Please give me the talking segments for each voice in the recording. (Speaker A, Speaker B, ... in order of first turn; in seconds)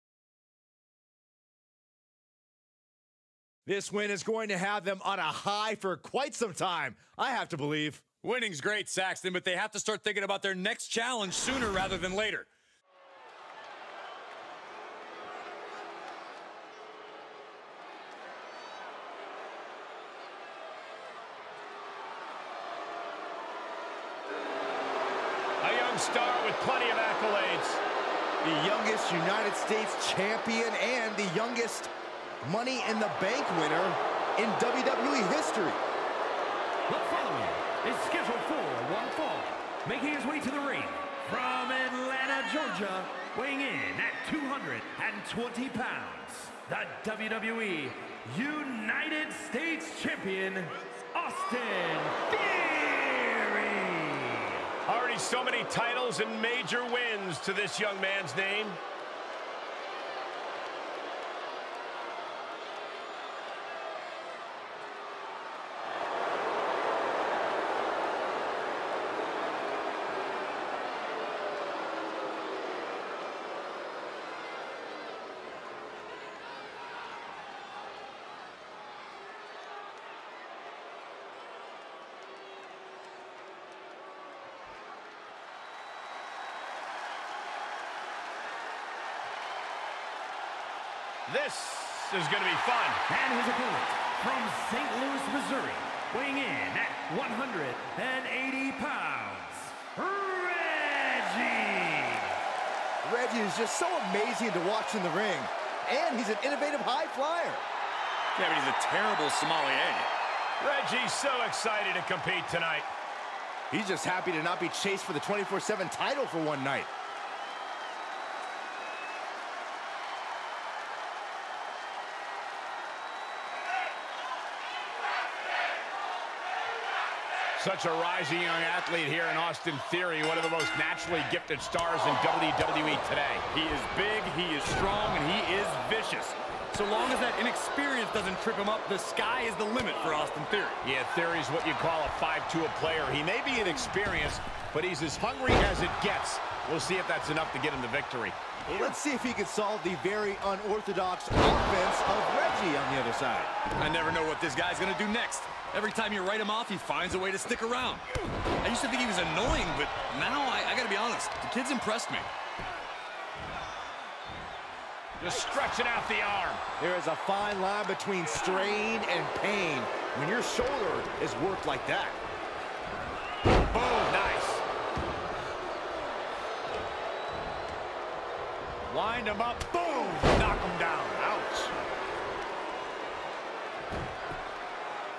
Speaker A: 3.7-8.0, 28.4-31.9, 32.4-35.8, 103.0-107.6, 113.7-116.9, 148.7-153.5, 166.8-172.2
Speaker B: 8.2-12.5, 108.3-110.1, 133.5-140.8, 153.8-158.1, 158.6-162.3, 179.2-181.0
Speaker C: 25.6-27.8, 54.8-58.8, 91.3-93.0, 110.6-112.9, 127.6-133.5, 140.8-148.4, 165.2-166.6, 173.7-174.6, 181.0-181.7
Speaker D: 36.9-54.7, 93.1-102.3